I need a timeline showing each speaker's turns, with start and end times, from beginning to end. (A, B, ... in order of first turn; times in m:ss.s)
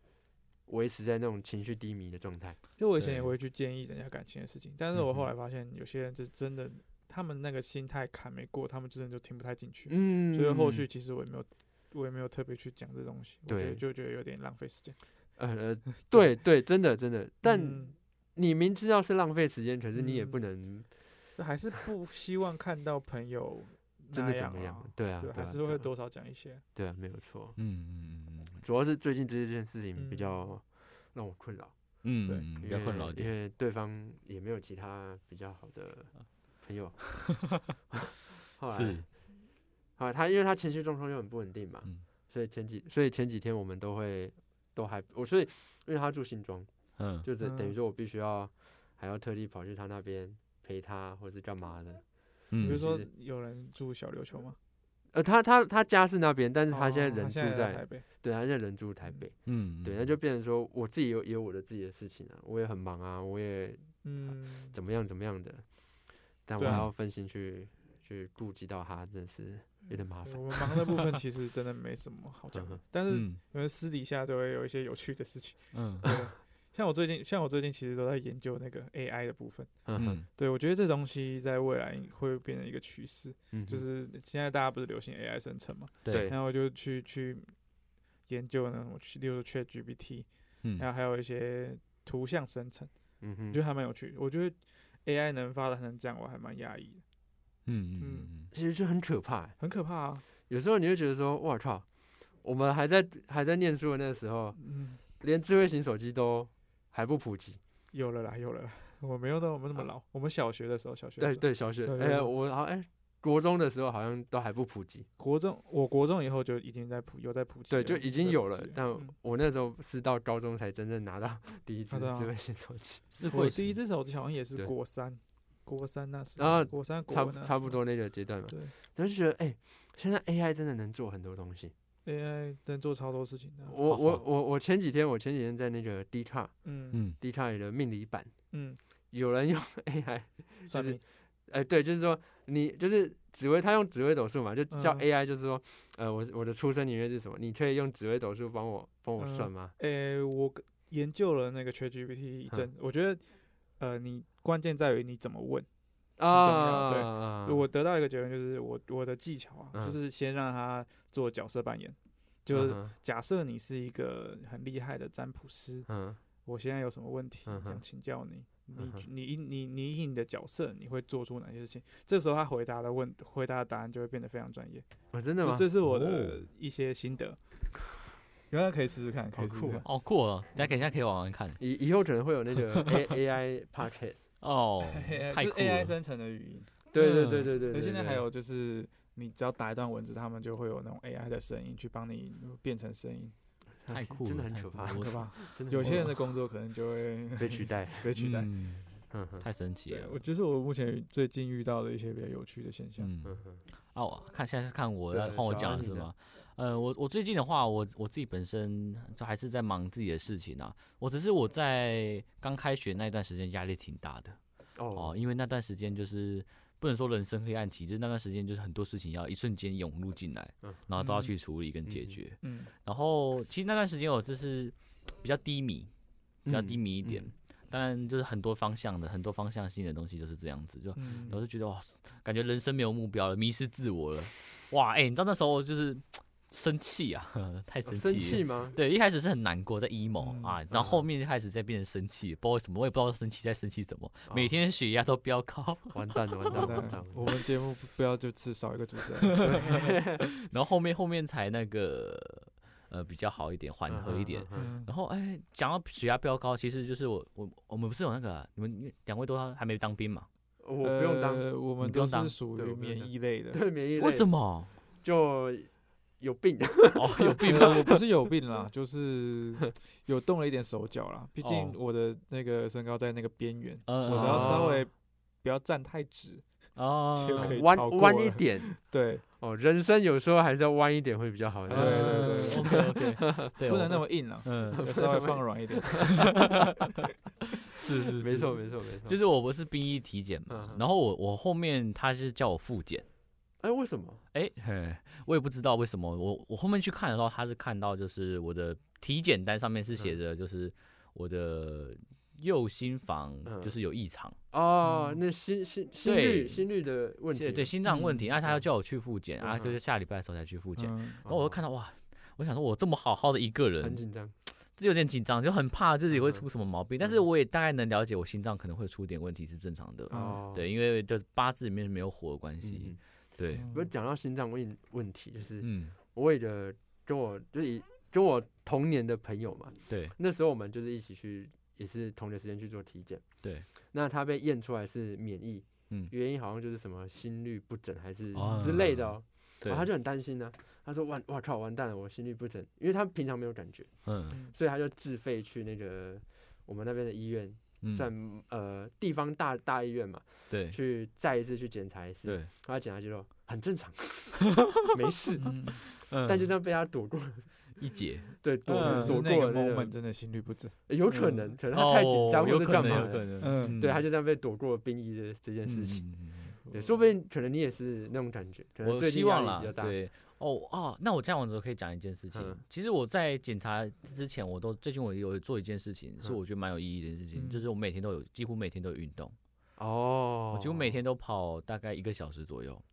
0:00.7-0:02.6 A
0:02.8-0:15.4 B
0:03.0-0:03.3 C
0:05.0-0:05.3 A
0:09.9-0:10.9 A
0:13.5-0:13.8 A
0:15.4-0:21.4 A
0:16.1-0:16.4 B
0:17.4-0:17.9 B
0:20.0-0:26.6 B
0:24.1-0:25.9 A
0:26.7-0:27.6 A
0:27.6-0:28.6 C
0:28.6-0:32.0 A
0:30.0-0:30.6 B
0:32.0-0:33.3 C
0:32.6-0:39.3 A
0:37.2-0:37.5 C
0:38.7-0:39.0 C
0:40.0-0:53.1 A
0:47.0-0:47.3 C
0:47.4-0:47.7 B
0:52.5-0:52.9 C
0:52.6-0:54.6 B
0:55.1-1:11.0 A
0:56.7-0:58.1 B
0:59.5-1:00.1 C
1:04.0-1:04.8 B
1:06.6-1:06.9 B
1:06.6-1:06.9 C
1:09.9-1:27.6 B
1:12.5-1:12.8 A
1:13.1-1:13.4 C
1:15.7-1:16.1 C
1:19.8-1:20.2 A
1:20.0-1:20.2 C
1:23.5-1:23.8 A
1:26.0-1:26.3 C
1:26.1-1:26.4 A
1:28.3-1:32.9 B
1:33.2-1:33.6 A
1:33.5-1:37.0 B
1:37.7-1:38.5 C
1:38.0-1:38.3 B
1:38.5-1:39.6 A
1:39.6-1:40.2 B
1:40.5-1:47.6 A
1:44.6-1:45.0 B
1:47.9-1:52.3 B
1:51.2-1:55.1 A
1:55.2-1:59.1 B
1:57.7-2:03.1 A
2:01.9-2:02.3 B
2:03.1-2:03.8 C
2:03.2-2:08.7 B
2:06.4-2:11.7 A
2:12.0-2:13.8 B
2:13.7-2:18.4 A
2:13.9-2:14.2 C
2:16.6-2:17.0 B
2:18.5-2:18.8 B
2:19.1-2:29.7 A
2:20.6-2:21.0 B
2:24.7-2:25.0 B
2:29.2-2:33.2 B
2:33.8-2:35.7 B
2:36.2-2:37.7 A
2:36.2-2:45.9 B
2:42.5-2:42.9 A
2:45.9-2:46.2 A
2:46.4-2:54.9 B
2:47.5-2:47.8 A
2:48.8-2:49.1 A
2:55.1-2:55.7 A
2:55.4-2:57.4 B
2:55.8-2:56.4 C
2:58.5-2:59.9 B
2:59.3-2:59.8 A
2:59.8-3:01.6 C
3:01.6-3:04.2 A
3:02.7-3:03.0 C
3:04.4-3:05.9 C
3:04.9-3:13.3 B
3:06.9-3:08.3 A
3:13.8-3:16.2 A
3:13.9-3:16.0 C
3:14.9-3:18.5 B
3:17.4-3:18.1 A
3:18.2-3:20.2 C
3:19.1-3:19.5 A
3:19.9-3:23.1 B
3:23.0-3:23.4 C
3:23.2-3:23.6 A
3:23.9-3:34.4 C
3:25.1-3:26.1 A
3:34.8-3:35.2 A
3:34.9-3:45.9 C
3:41.0-3:41.3 B
3:41.8-3:42.2 A
3:42.4-3:42.7 B
3:46.4-3:47.3 A
3:46.4-4:06.9 C
3:51.0-3:51.4 B
3:57.9-3:58.8 A
4:00.2-4:00.6 B
4:00.7-4:01.0 A
4:04.3-4:04.5 A
4:05.9-4:07.3 A
4:06.5-4:09.8 B
4:09.4-4:10.3 A
4:10.3-4:20.3 C
4:13.9-4:14.7 A
4:14.5-4:14.9 B
4:20.6-4:21.5 A
4:20.8-4:23.6 B
4:21.8-4:22.4 C
4:22.6-4:28.0 A
4:24.0-4:24.8 C
4:27.0-4:28.0 C
4:27.5-4:39.2 B
4:31.4-4:31.8 C
4:33.9-4:34.8 C
4:34.1-4:34.9 A
4:36.8-4:37.6 C
4:37.4-4:43.5 A
4:41.7-4:46.6 B
4:41.7-4:45.0 C
4:44.7-4:46.0 A
4:47.8-4:53.0 C
4:48.2-4:49.2 A
4:50.5-4:50.8 A
4:53.6-4:54.2 A
4:54.3-5:04.4 C
5:03.4-5:03.8 A
5:04.5-5:07.7 A
5:04.8-5:05.2 B
5:06.0-5:06.7 C
5:07.3-5:23.7 C
5:07.8-5:08.3 B
5:09.4-5:09.8 A
5:10.8-5:11.2 B
5:11.2-5:11.6 A
5:13.8-5:14.4 A
5:16.1-5:16.4 A
5:20.1-5:20.7 A
5:20.1-5:20.4 B
5:22.6-5:23.0 A
5:23.5-5:23.9 B
5:23.5-5:57.8 A
5:25.6-5:26.0 C
5:29.9-5:30.2 C
5:33.4-5:33.7 C
5:38.4-5:39.9 C
5:38.4-5:38.7 B
5:44.1-5:44.4 C
5:44.3-5:44.6 B
5:47.8-5:48.1 C
5:50.5-5:50.8 C
5:52.2-5:52.5 C
5:55.4-5:55.8 B
5:56.1-5:56.5 C
5:57.8-5:59.2 C
5:58.4-6:00.0 A
5:58.7-6:01.5 B
6:00.9-6:10.0 A
6:01.7-6:04.0 C
6:02.8-6:03.8 B
6:05.6-6:06.6 C
6:06.6-6:07.0 B
6:08.8-6:19.4 C
6:12.3-6:12.6 A
6:17.3-6:17.7 B
6:19.8-6:21.0 A
6:20.5-6:22.8 C